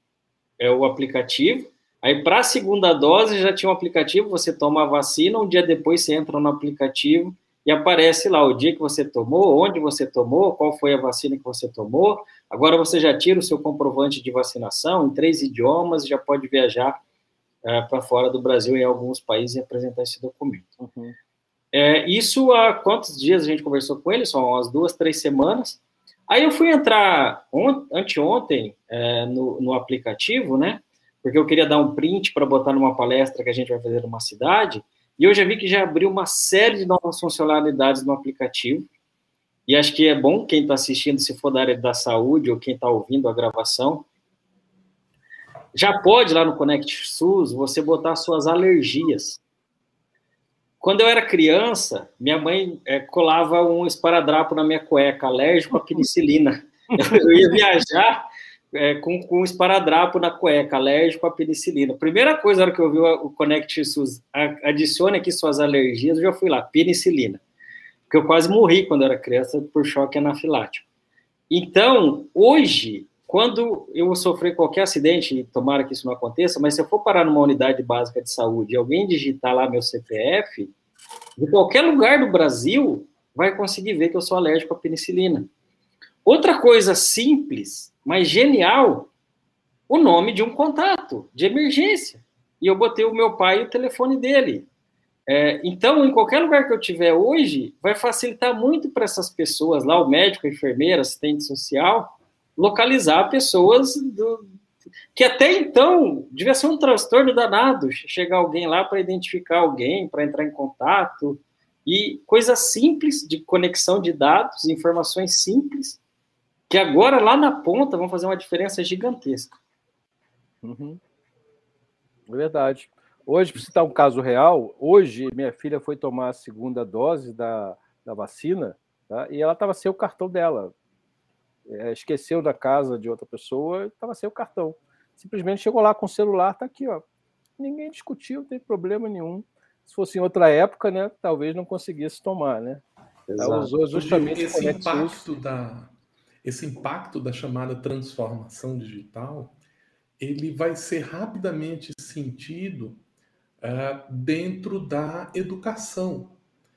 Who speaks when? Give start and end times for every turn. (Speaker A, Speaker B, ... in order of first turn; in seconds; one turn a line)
Speaker A: 0.6-17.0
Speaker A: 17.6-20.8
Speaker B: 20.8-21.1
Speaker A: 21.7-38.9
Speaker A: 39.7-44.1
Speaker A: 45.7-49.4
Speaker A: 50.8-67.4
Speaker B: 56.9-57.3
Speaker A: 68.1-70.9
Speaker A: 71.5-80.7
Speaker A: 81.4-85.5
Speaker A: 86.3-89.1
Speaker A: 89.9-94.7
Speaker A: 95.3-104.5
Speaker A: 105.2-116.0
Speaker A: 116.7-119.6
Speaker B: 120.6-121.0
Speaker B: 122.3-130.7
Speaker B: 131.7-137.0
Speaker B: 137.6-142.8
Speaker A: 143.3-143.7
Speaker B: 143.4-145.3
Speaker C: 143.9-145.9
Speaker C: 146.4-149.6
Speaker C: 150.2-153.0
Speaker C: 153.6-156.3